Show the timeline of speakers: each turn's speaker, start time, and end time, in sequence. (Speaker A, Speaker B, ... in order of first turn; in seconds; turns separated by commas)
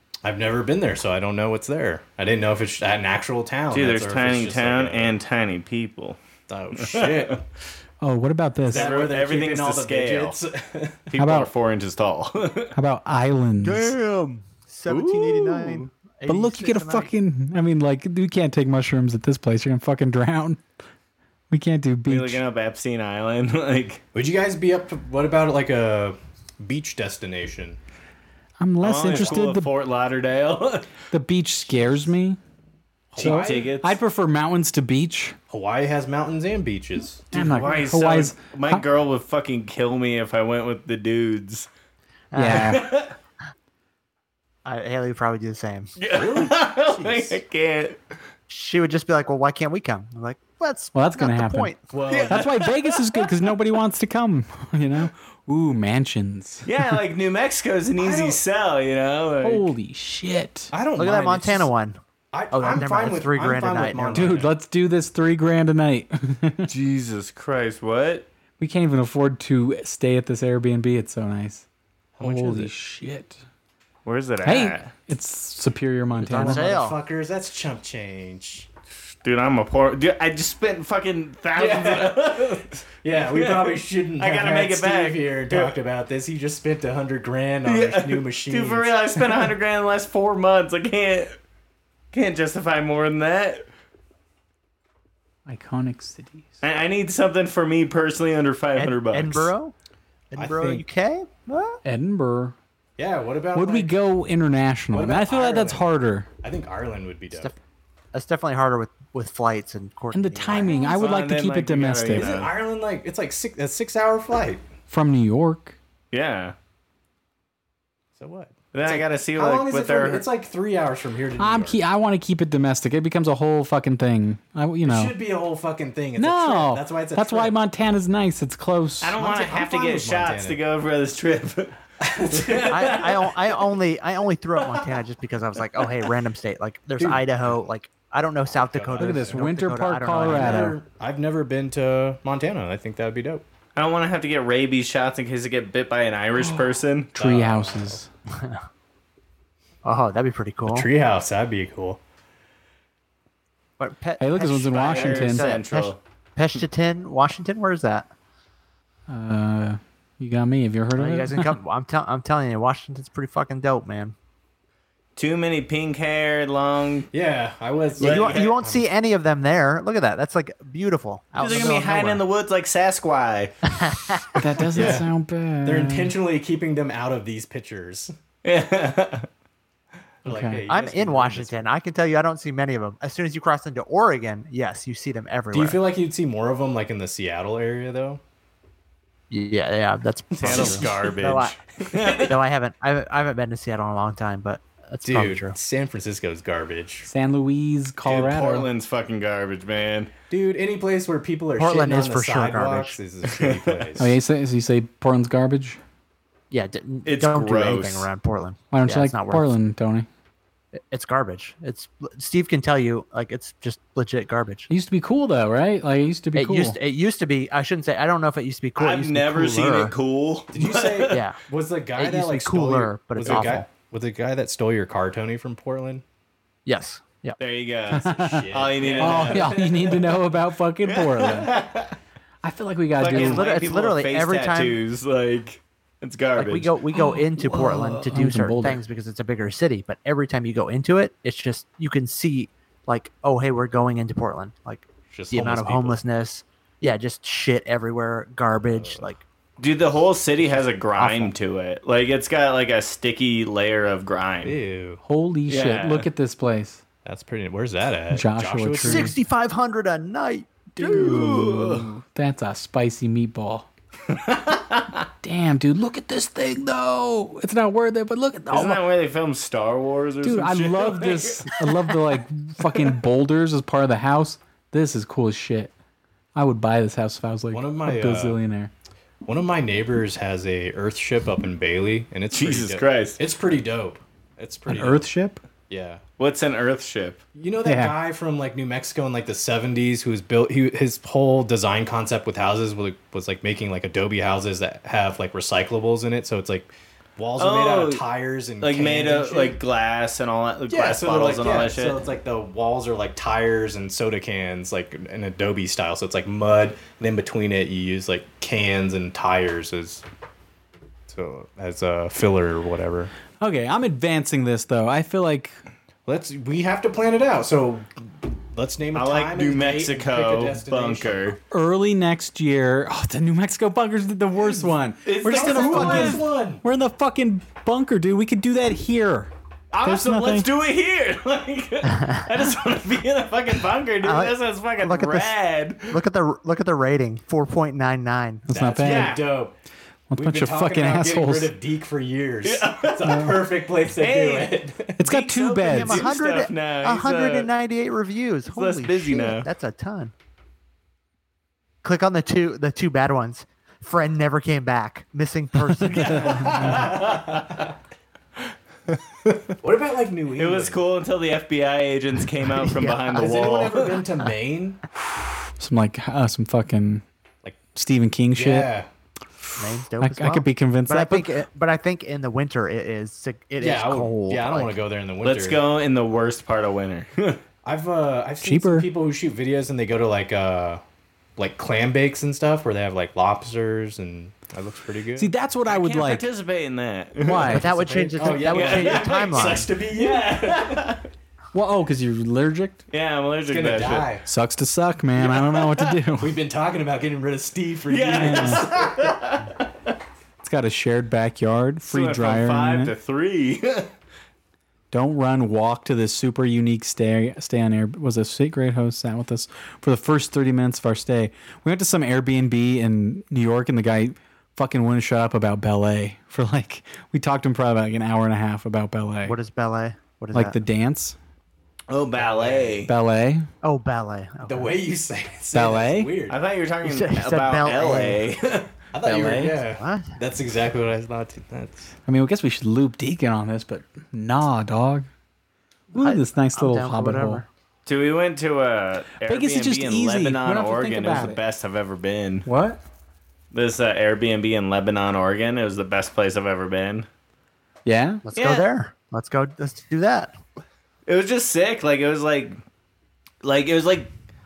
Speaker A: 0.2-5.1, Speaker B: 3.7-6.2, Speaker A: 6.5-7.4, Speaker B: 6.7-7.3, Speaker C: 8.0-8.9, Speaker A: 8.6-11.0, Speaker B: 8.7-10.4, Speaker B: 11.1-12.8, Speaker C: 11.2-11.5, Speaker C: 12.7-13.9, Speaker D: 13.6-17.1, Speaker B: 14.9-15.9, Speaker C: 16.2-20.6, Speaker C: 21.5-22.4, Speaker B: 22.1-24.0, Speaker A: 24.1-27.8, Speaker C: 28.6-29.7, Speaker B: 28.8-30.9, Speaker A: 29.1-29.4, Speaker C: 31.1-32.4, Speaker A: 33.1-33.7, Speaker C: 33.1-35.4, Speaker B: 33.1-34.0, Speaker A: 35.5-37.5, Speaker C: 37.3-38.8, Speaker B: 37.4-41.7, Speaker D: 42.3-42.8, Speaker C: 42.3-42.9, Speaker B: 42.5-43.1, Speaker D: 44.6-45.9, Speaker B: 46.0-48.0, Speaker A: 46.1-47.4, Speaker D: 48.5-51.8, Speaker C: 50.9-51.7, Speaker A: 51.9-52.5, Speaker B: 52.1-53.4, Speaker C: 52.3-57.0, Speaker B: 56.6-59.7, Speaker A: 58.0-58.4, Speaker C: 59.4-60.7, Speaker A: 60.7-61.7, Speaker D: 61.0-62.0, Speaker A: 62.3-64.5, Speaker D: 62.5-64.4, Speaker C: 64.1-66.7, Speaker B: 66.7-68.3, Speaker C: 68.6-71.6, Speaker A: 72.2-72.7, Speaker C: 72.2-73.4, Speaker B: 74.0-74.9, Speaker C: 74.4-76.7, Speaker A: 76.2-78.7, Speaker D: 76.2-77.0, Speaker B: 79.2-85.8, Speaker A: 81.5-89.5, Speaker B: 87.6-91.4, Speaker B: 92.1-93.7, Speaker C: 95.5-96.5, Speaker B: 96.6-99.5, Speaker D: 98.8-99.7, Speaker D: 100.3-101.8, Speaker A: 100.3-100.8, Speaker C: 101.8-102.5, Speaker A: 103.0-104.0, Speaker C: 103.5-106.3, Speaker A: 104.9-105.8, Speaker A: 106.4-107.5, Speaker D: 107.3-107.6, Speaker D: 108.1-110.8, Speaker C: 110.1-112.3, Speaker B: 110.7-112.5, Speaker A: 112.1-114.6, Speaker C: 114.9-115.8, Speaker B: 116.1-116.5, Speaker A: 118.2-121.8, Speaker B: 118.7-120.2, Speaker C: 121.4-125.1, Speaker A: 124.8-127.5, Speaker C: 126.2-129.2, Speaker B: 129.0-131.8, Speaker A: 129.2-130.6, Speaker A: 132.0-133.1, Speaker B: 132.3-133.1, Speaker D: 132.7-140.8, Speaker A: 137.0-137.5, Speaker A: 138.5-139.4, Speaker C: 139.0-140.8, Speaker A: 140.2-143.4, Speaker B: 143.7-147.2, Speaker C: 146.3-148.1, Speaker A: 147.2-148.0, Speaker D: 148.3-148.6, Speaker D: 149.8-150.9, Speaker A: 150.7-152.0, Speaker D: 153.8-158.1, Speaker C: 154.2-155.4, Speaker B: 154.7-156.0, Speaker C: 159.1-161.5, Speaker D: 160.9-164.1, Speaker B: 165.2-167.1, Speaker A: 167.1-168.8, Speaker B: 168.0-168.5, Speaker D: 168.0-172.2, Speaker B: 171.4-173.6, Speaker D: 173.7-174.3, Speaker C: 174.3-176.2, Speaker A: 174.7-175.1, Speaker A: 175.6-178.1, Speaker B: 178.4-179.3, Speaker A: 180.2-181.7, Speaker C: 180.2-180.6, Speaker D: 180.7-185.8, Speaker A: 185.5-188.2, Speaker D: 189.3-191.6, Speaker A: 190.3-191.0, Speaker B: 190.4-192.3, Speaker D: 192.2-195.6, Speaker A: 195.0-197.1, Speaker C: 197.0-198.7, Speaker B: 198.0-200.1, Speaker A: 200.3-204.1, Speaker D: 201.6-203.0, Speaker B: 203.2-203.9, Speaker C: 204.0-205.8, Speaker D: 206.5-209.5, Speaker B: 207.0-208.1, Speaker C: 208.7-210.1, Speaker D: 210.7-214.7, Speaker C: 214.7-216.8, Speaker D: 216.3-219.9, Speaker B: 218.8-221.2, Speaker A: 220.5-226.0, Speaker D: 221.1-221.4, Speaker D: 221.9-223.7, Speaker D: 226.7-227.4, Speaker B: 227.4-230.2, Speaker C: 227.9-231.6, Speaker A: 227.9-229.8, Speaker B: 230.8-231.9, Speaker C: 232.4-233.5, Speaker B: 233.0-236.8, Speaker D: 233.0-234.8, Speaker D: 236.3-249.2, Speaker C: 237.0-238.8, Speaker A: 245.1-246.0, Speaker A: 248.6-249.1, Speaker B: 249.6-254.6, Speaker D: 251.0-251.3, Speaker A: 254.4-255.0, Speaker C: 255.0-256.8, Speaker B: 255.5-256.1, Speaker A: 257.0-259.1, Speaker C: 258.1-259.1, Speaker D: 258.8-261.2, Speaker B: 260.8-261.9, Speaker C: 260.8-263.7, Speaker B: 264.1-265.0, Speaker C: 265.2-268.8, Speaker B: 268.5-271.5, Speaker C: 270.2-275.7, Speaker C: 276.3-278.7, Speaker A: 277.5-278.4, Speaker A: 279.2-285.1, Speaker B: 282.3-283.2, Speaker C: 284.7-285.4, Speaker A: 285.7-286.0, Speaker B: 286.2-287.2, Speaker A: 287.3-299.6, Speaker C: 287.6-287.9, Speaker B: 297.4-298.0, Speaker B: 298.6-302.0, Speaker A: 300.7-310.0, Speaker A: 311.1-313.1, Speaker C: 313.4-315.6, Speaker A: 316.1-321.4, Speaker B: 318.9-321.4, Speaker C: 321.5-329.3, Speaker B: 325.0-326.3, Speaker A: 325.2-326.6, Speaker B: 329.7-336.0, Speaker C: 329.8-330.5, Speaker D: 334.0-335.3, Speaker D: 335.9-338.5, Speaker C: 338.5-339.2, Speaker A: 338.5-339.5, Speaker B: 338.8-339.2, Speaker C: 340.1-341.5, Speaker A: 340.1-345.0, Speaker B: 342.4-343.3, Speaker C: 343.0-343.4, Speaker B: 343.9-347.5, Speaker C: 345.0-346.1, Speaker D: 345.7-350.1, Speaker B: 348.5-349.5, Speaker D: 351.8-356.6, Speaker C: 356.0-356.8, Speaker A: 356.1-357.7, Speaker B: 356.6-357.4, Speaker A: 359.6-360.8, Speaker B: 360.4-364.0, Speaker D: 362.6-363.0, Speaker A: 363.1-364.8, Speaker C: 365.6-367.0, Speaker C: 367.7-368.7, Speaker A: 368.3-368.9, Speaker C: 369.5-371.4, Speaker D: 369.6-374.7, Speaker A: 373.6-375.6, Speaker B: 375.2-377.4, Speaker A: 377.6-380.8, Speaker C: 378.4-378.9, Speaker A: 381.4-385.3, Speaker C: 385.1-386.3, Speaker B: 385.6-387.6, Speaker C: 387.2-387.6, Speaker D: 387.3-389.7, Speaker A: 387.4-390.9, Speaker B: 388.3-391.0, Speaker C: 391.5-392.8, Speaker B: 392.9-394.1, Speaker A: 393.5-394.3, Speaker C: 394.2-396.4, Speaker B: 395.2-395.9, Speaker A: 396.2-399.1, Speaker B: 397.9-399.6, Speaker C: 398.1-398.6, Speaker C: 400.4-402.9, Speaker B: 401.9-403.9, Speaker C: 404.9-419.4, Speaker D: 419.2-420.6, Speaker C: 420.3-421.1, Speaker B: 421.9-422.9, Speaker A: 422.2-422.8, Speaker C: 422.8-423.5, Speaker D: 423.6-424.8, Speaker A: 424.4-426.4, Speaker C: 425.5-426.1, Speaker B: 426.3-428.7, Speaker D: 426.8-428.2, Speaker A: 428.9-431.9, Speaker C: 429.0-429.6, Speaker D: 429.7-430.1, Speaker C: 432.1-435.1, Speaker C: 435.9-437.4, Speaker D: 435.9-437.5, Speaker B: 437.9-442.4, Speaker C: 439.2-441.4, Speaker C: 442.4-442.8, Speaker B: 443.5-447.1, Speaker C: 447.8-448.2, Speaker D: 448.2-450.3, Speaker B: 448.4-448.6, Speaker B: 451.1-452.6, Speaker B: 453.4-454.1